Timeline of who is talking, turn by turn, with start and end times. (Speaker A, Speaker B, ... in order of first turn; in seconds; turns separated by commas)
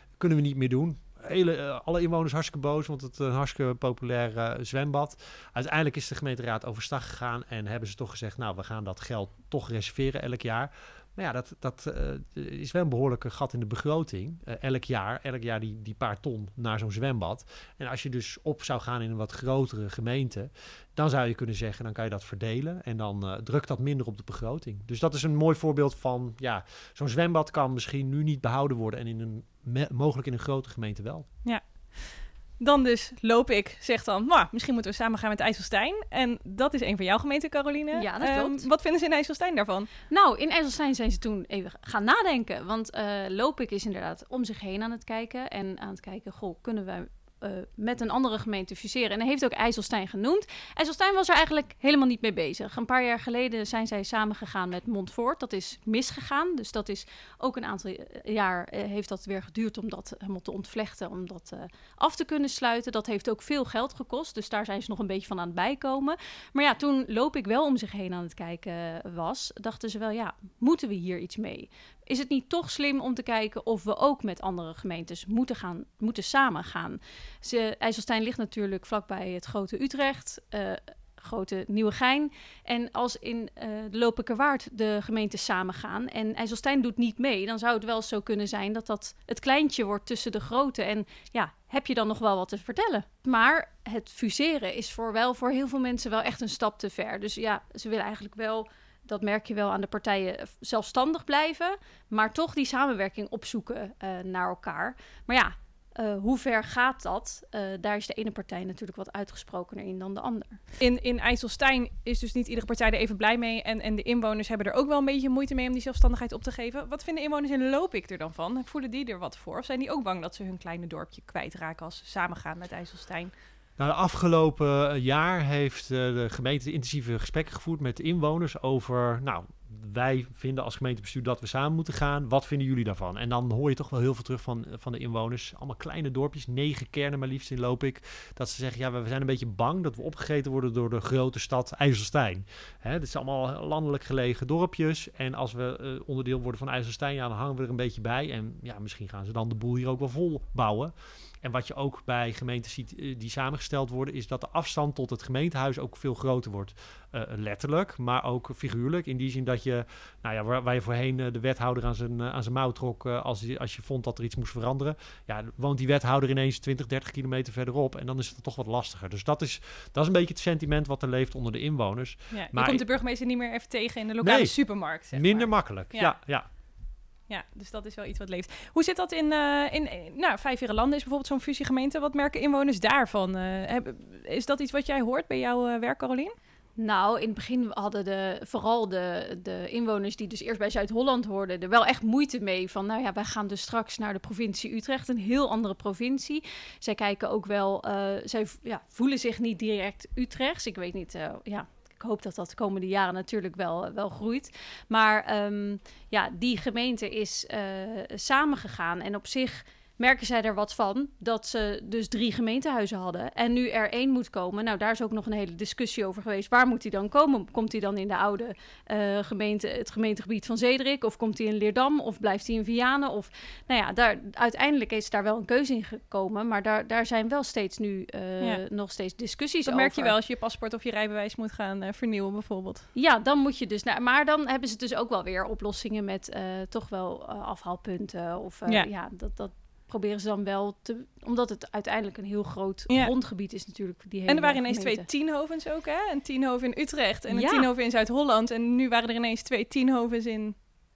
Speaker A: 0.2-31.3, Speaker B: 31.4-39.9, Speaker C: 37.9-38.7, Speaker C: 40.1-110.6, Speaker B: 110.8-123.3, Speaker A: 123.8-172.8, Speaker B: 172.3-176.2, Speaker A: 174.2-174.5, Speaker A: 175.1-176.5, Speaker B: 177.3-186.3, Speaker C: 186.8-230.1, Speaker B: 229.7-232.9, Speaker C: 232.9-245.1, Speaker B: 242.9-243.1, Speaker B: 244.3-250.6, Speaker C: 247.3-247.7